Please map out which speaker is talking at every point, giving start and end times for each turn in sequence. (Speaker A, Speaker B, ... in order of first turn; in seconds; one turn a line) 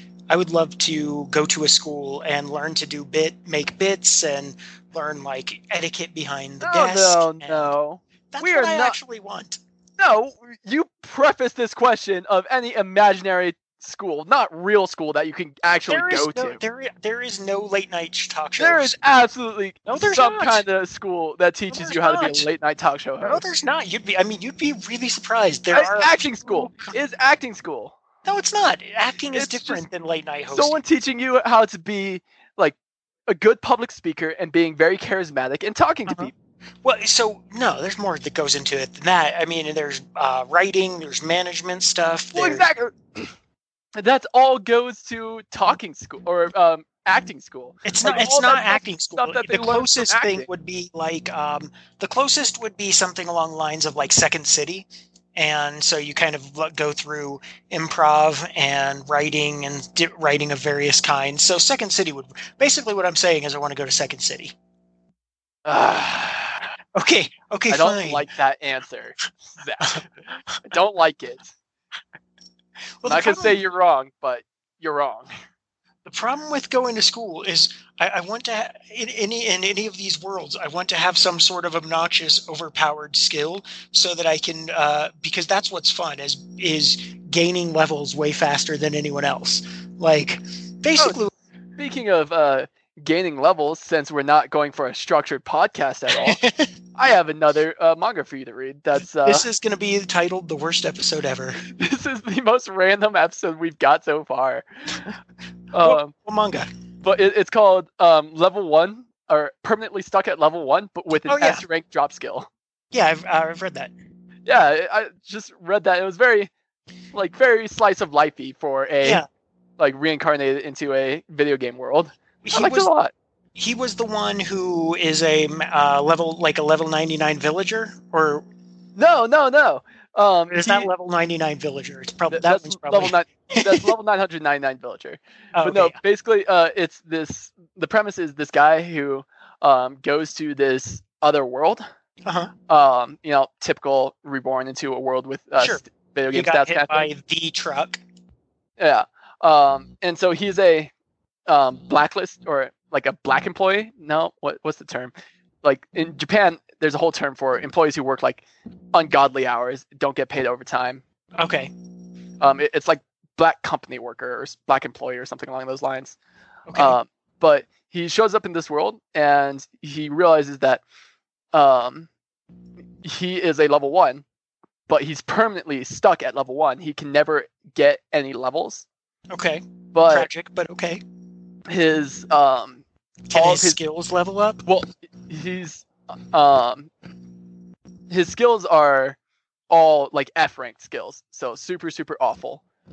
Speaker A: 0.3-7.8
Speaker B: 6.6-9.0
Speaker A: 8.3-9.6
Speaker B: 10.0-16.6
Speaker A: 15.9-19.0
Speaker B: 18.6-23.4
Speaker A: 19.9-20.6
Speaker A: 21.7-22.5
Speaker A: 23.2-26.9
Speaker B: 25.7-27.9
Speaker A: 28.2-30.8
Speaker B: 29.3-29.9
Speaker B: 30.5-32.8
Speaker B: 33.3-36.3
Speaker A: 36.8-42.7
Speaker B: 42.3-43.3
Speaker B: 44.0-50.5
Speaker A: 47.9-64.5
Speaker B: 65.7-66.6
Speaker A: 67.0-68.3
Speaker B: 67.7-70.1
Speaker B: 70.6-71.5
Speaker A: 73.0-73.6
Speaker B: 73.1-75.3
Speaker A: 76.0-91.3
Speaker B: 91.8-96.4
Speaker A: 96.1-96.7
Speaker B: 97.0-99.5
Speaker A: 99.2-101.6
Speaker B: 101.8-105.1
Speaker B: 105.7-106.1
Speaker A: 105.8-106.7
Speaker B: 107.0-112.5
Speaker A: 111.3-111.6
Speaker A: 112.9-113.9
Speaker B: 114.5-116.5
Speaker B: 117.1-119.2
Speaker B: 119.8-123.1
Speaker A: 122.4-122.9
Speaker A: 123.6-128.5
Speaker B: 129.0-130.9
Speaker A: 130.5-133.9
Speaker B: 132.3-141.8
Speaker A: 135.6-136.0
Speaker A: 142.2-142.5
Speaker B: 142.7-147.1
Speaker A: 146.3-148.0
Speaker B: 148.8-150.9
Speaker B: 151.5-161.0
Speaker A: 161.4-161.7
Speaker B: 162.4-166.2
Speaker A: 166.7-167.0
Speaker B: 166.8-170.8
Speaker B: 171.5-172.1
Speaker B: 173.0-174.2
Speaker B: 174.9-178.9
Speaker A: 179.3-181.0
Speaker B: 179.9-180.3
Speaker B: 181.7-183.8
Speaker A: 183.3-184.6
Speaker B: 184.7-186.9
Speaker B: 188.1-189.2
Speaker B: 189.7-192.6